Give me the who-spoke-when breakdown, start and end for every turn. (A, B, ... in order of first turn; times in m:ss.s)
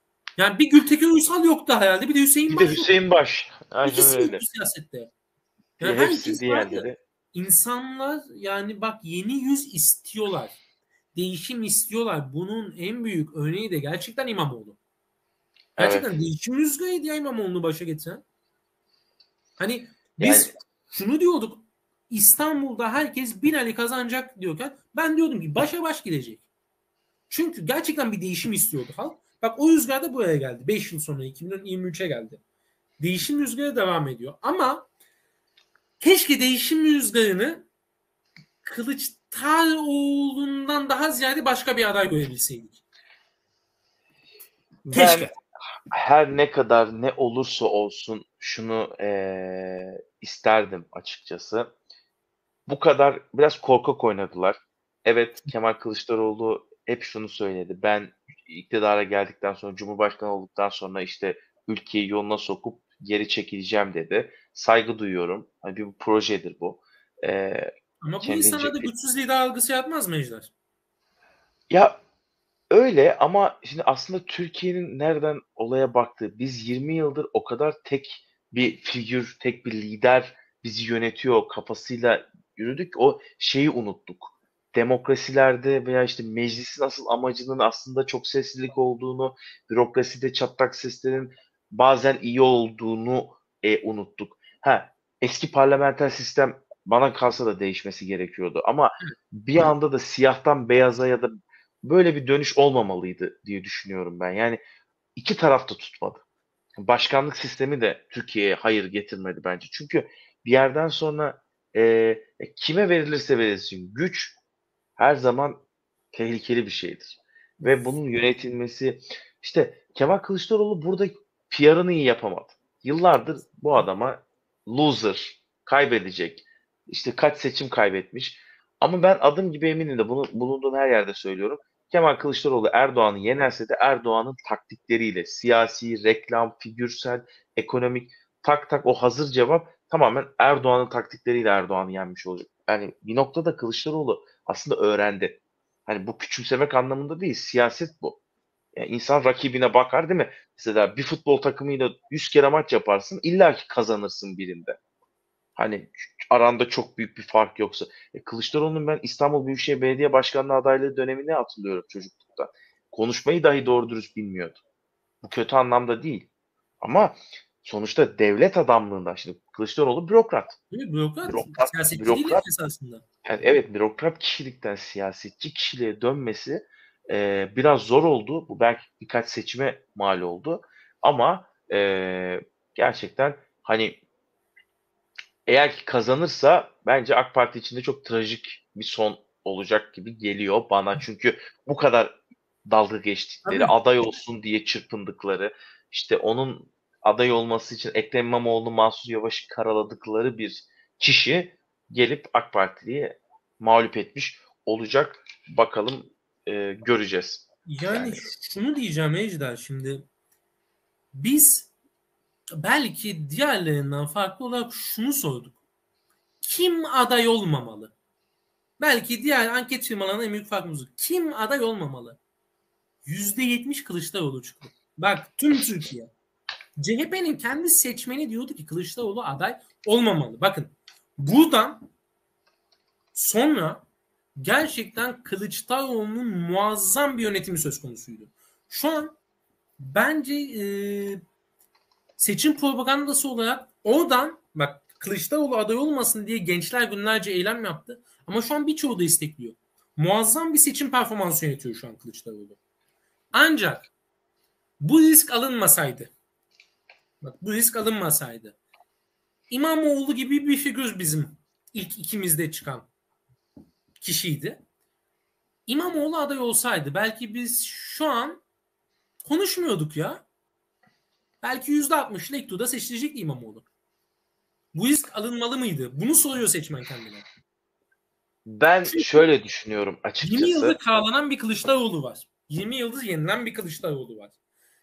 0:00.4-0:02.9 A
0:02.5-0:04.4 B
0:03.8-0:05.1 A
0:05.8-0:10.6 A
0:05.8-0:07.0 B
0:11.2-0:14.8 A
0:15.8-0:16.1 B
0:15.8-0:18.2 A
0:19.6-0:26.4 A
0:20.2-0:20.5 B
0:27.3-0:32.4 A
0:33.0-0:34.9 A
0:36.0-0:37.7 A
0:38.6-0:42.8 A
0:44.9-0:45.3 A
0:44.9-0:45.3 B
0:45.9-0:51.7 B
0:52.7-1:07.7 B
1:08.0-1:10.5 A
1:08.2-1:08.9 B
1:11.7-1:12.0 B
1:12.7-1:41.3 B
1:41.8-1:44.6 B
1:45.2-1:46.2 B
1:46.8-1:54.4 B
1:55.0-2:28.2 B
1:57.6-1:57.9 A
2:28.8-2:34.8 B
2:35.6-2:44.6 B
2:45.2-2:46.3 B
2:46.8-2:50.6 B
2:50.7-2:53.0 A
2:51.3-2:52.4 B
2:53.2-3:04.0 B
3:05.5-3:28.3 B
3:13.4-3:13.7 A
3:27.7-3:30.1 A
3:31.1-3:31.7 A
3:32.6-3:35.6 A
3:36.4-3:37.9 A
3:38.8-3:42.2 A
3:43.0-3:46.1 A
3:46.8-3:51.9 A
3:53.2-3:53.8 A
3:54.4-3:59.2 A
3:59.8-4:01.2 A
4:02.2-4:12.6 A
4:13.3-4:13.9 A
4:14.8-4:16.1 A
4:17.2-4:18.6 A
4:19.5-4:22.9 A
4:24.0-4:24.6 A
4:25.7-4:28.4 A
4:29.2-4:30.2 A
4:31.4-4:33.7 A
4:34.7-4:37.3 A
4:38.4-4:40.8 B
4:38.9-4:39.3 A
4:40.2-4:44.4 A